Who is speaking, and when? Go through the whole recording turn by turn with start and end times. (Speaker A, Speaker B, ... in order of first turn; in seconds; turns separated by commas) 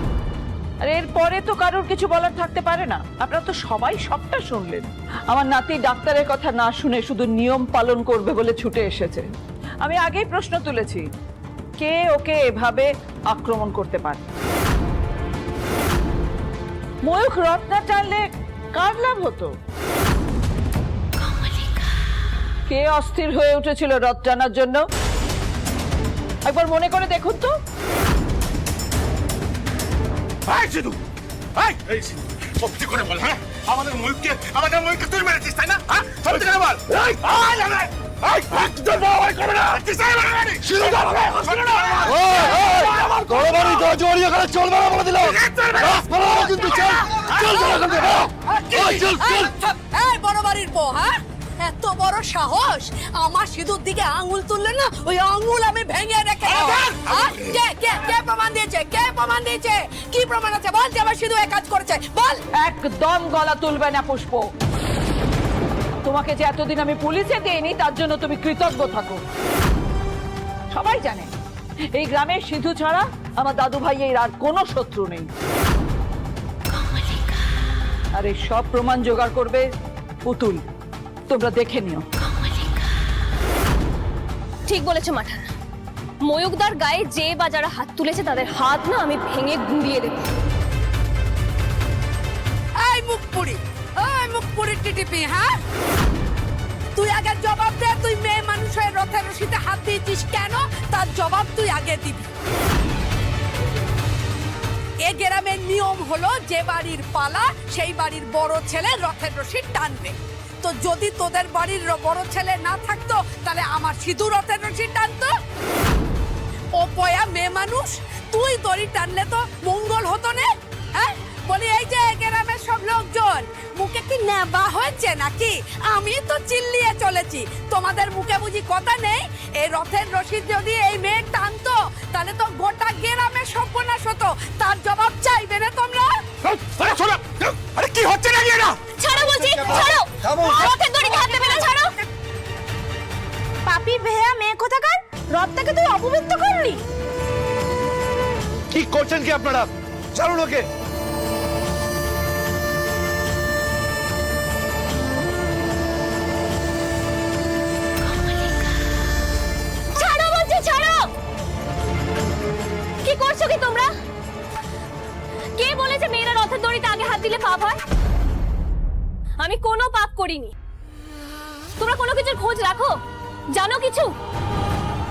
Speaker A: 0.8-9.3, Speaker A: 9.8-11.1, Speaker A: 11.8-14.2, Speaker A: 17.1-19.6, Speaker A: 22.7-24.9, Speaker A: 26.5-27.6, Speaker B: 30.5-31.0, Speaker B: 31.6-43.8, Speaker C: 42.0-49.5, Speaker B: 45.2-46.1, Speaker D: 47.4-48.0, Speaker B: 48.7-49.0, Speaker D: 48.7-62.4, Speaker A: 62.6-64.5, Speaker A: 66.0-69.2, Speaker A: 70.7-71.3, Speaker A: 72.0-75.3, Speaker A: 78.2-79.7, Speaker A: 80.3-80.7, Speaker A: 81.3-82.0, Speaker E: 84.7-85.5, Speaker E: 86.2-90.3, Speaker D: 92.8-95.6, Speaker D: 97.0-102.3, Speaker D: 105.0-115.3, Speaker D: 116.8-136.2, Speaker B: 136.6-138.7, Speaker E: 139.0-142.0, Speaker C: 139.4-140.7, Speaker F: 140.6-141.8, Speaker F: 143.7-146.8, Speaker C: 148.7-150.6, Speaker E: 159.9-161.1, Speaker E: 163.1-163.9, Speaker E: 165.6-167.8, Speaker E: 169.4-170.5, Speaker E: 171.8-173.0, Speaker E: 173.6-174.1